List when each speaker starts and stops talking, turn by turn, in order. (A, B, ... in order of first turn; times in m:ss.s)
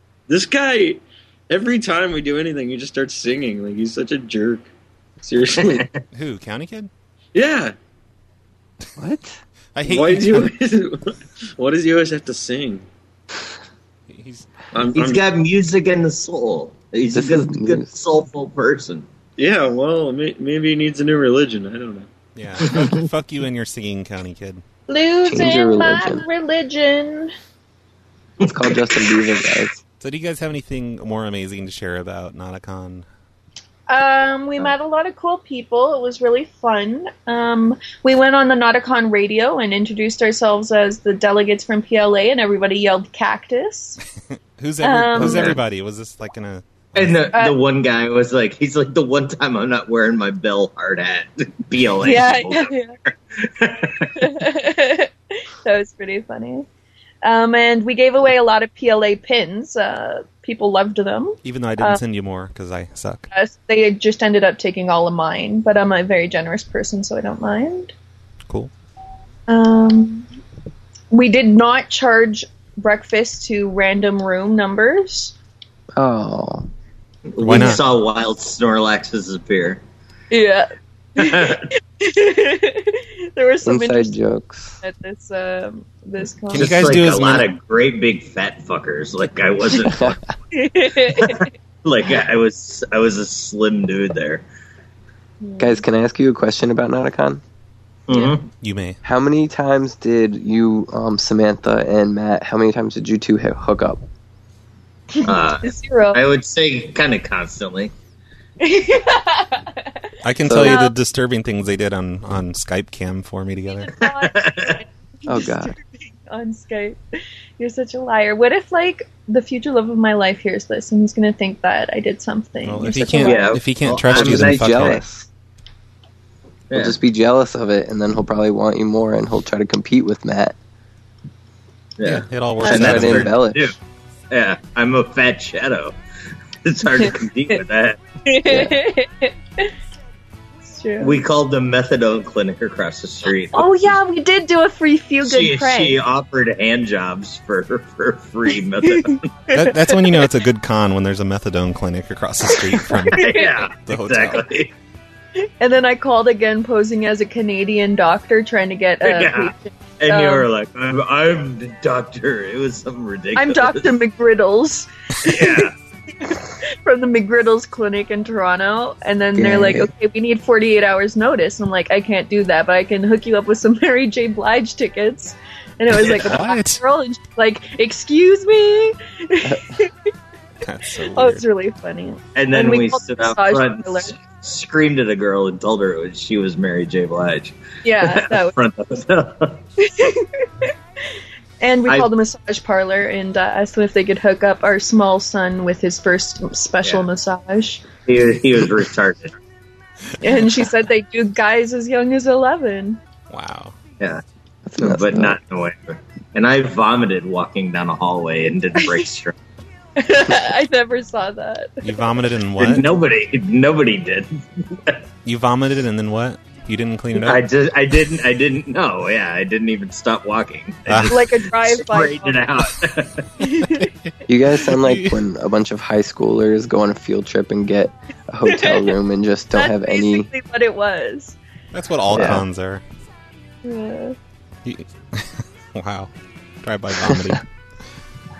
0:00.3-0:04.7 A
0:05.2-0:05.8 A
0:05.6-0:06.0 B
0:06.1-0:06.9 C
0:07.3-0:07.7 A
0:09.0-0:09.4 D
0:09.7-0:10.5 C
0:09.8-0:12.8 A
0:14.1-0:14.5 C
0:14.7-0:15.2 A
0:14.9-0:19.0 B
0:17.1-0:17.9 D
0:19.4-0:22.1 A
0:22.4-0:24.6 C
0:22.6-0:23.0 B
0:24.9-0:27.3 E
0:25.2-0:26.2 D
0:28.4-0:29.8 D
0:28.4-0:29.1 B
0:30.0-0:33.0 C
0:33.9-0:44.0 E
0:44.6-0:47.3 C
0:44.8-0:45.6 E
0:45.2-0:45.6 D
0:46.9-0:54.2 B
0:52.0-0:52.9 E
0:54.2-0:55.1 E
0:55.6-0:56.7 E
0:57.2-1:02.0 E
1:01.4-1:03.3 C
1:03.3-1:07.9 E
1:09.5-1:10.3 E
1:11.1-1:15.3 E
1:16.0-1:16.7 D
1:17.3-1:19.8 B
1:17.4-1:17.8 C
1:20.3-1:24.2 E
1:21.2-1:21.6 B
1:23.6-1:24.8 D
1:24.8-1:26.8 E
1:26.5-1:27.5 C
1:26.5-1:30.2 B
1:29.8-1:30.2 D
1:30.5-1:31.5 E
1:31.1-1:34.4 B
1:35.4-1:35.8 E
1:35.6-1:37.4 D
1:38.1-1:38.5 B
1:38.6-1:39.0 C
1:39.0-1:44.0 D
1:45.1-1:46.2 E
1:45.2-1:47.9 B
1:48.6-1:50.0 E
1:50.2-1:53.9 C
1:50.4-1:50.8 D
1:50.6-1:51.0 E
1:53.7-1:57.0 E
1:54.1-1:54.8 B
1:55.3-1:55.7 D
1:57.6-2:03.5 E
2:02.6-2:05.0 C
2:03.2-2:05.0 B
2:04.1-2:05.3 D
2:06.7-2:07.0 B
2:06.7-2:10.5 D
2:12.0-2:13.8 B
2:12.0-2:13.4 C
2:12.6-2:13.7 D
2:14.3-2:16.0 B
2:16.6-2:18.0 B
2:18.2-2:19.7 E
2:20.7-2:21.2 E
2:21.0-2:24.0 B
2:23.5-2:26.0 E
2:25.2-2:29.4 B
2:28.8-2:30.0 E
2:29.5-2:34.4 C
2:32.9-2:33.6 E
2:33.1-2:34.7 B
2:35.6-2:40.5 E
2:39.0-2:43.9 B
2:43.4-2:45.7 E
2:45.2-2:45.7 B
2:46.2-2:59.9 E
2:49.3-2:49.9 D
2:56.0-2:56.8 C
3:00.6-3:01.4 C
3:01.1-3:04.1 E
3:02.3-3:09.6 B
3:07.8-3:08.5 E
3:09.8-3:10.7 E
3:11.6-3:17.8 E
3:18.0-3:19.4 B
3:20.2-3:23.0 E
3:23.3-3:23.8 C
3:24.6-3:25.4 D
3:24.8-3:29.3 B
3:30.0-3:32.1 E
3:31.8-3:32.9 C
3:32.6-3:35.0 B
3:35.2-3:37.4 C
3:37.2-3:43.3 B
3:40.9-3:41.2 C
3:41.1-3:42.4 E
3:43.4-3:43.9 E
3:44.3-3:50.3 D
3:44.6-3:45.2 C
3:48.4-3:48.9 E
3:49.5-3:51.4 E
3:51.7-3:52.8 C
3:52.1-3:52.4 D
3:52.1-3:52.4 B
3:53.6-3:54.2 E
3:54.6-3:56.1 C
3:56.6-3:57.4 C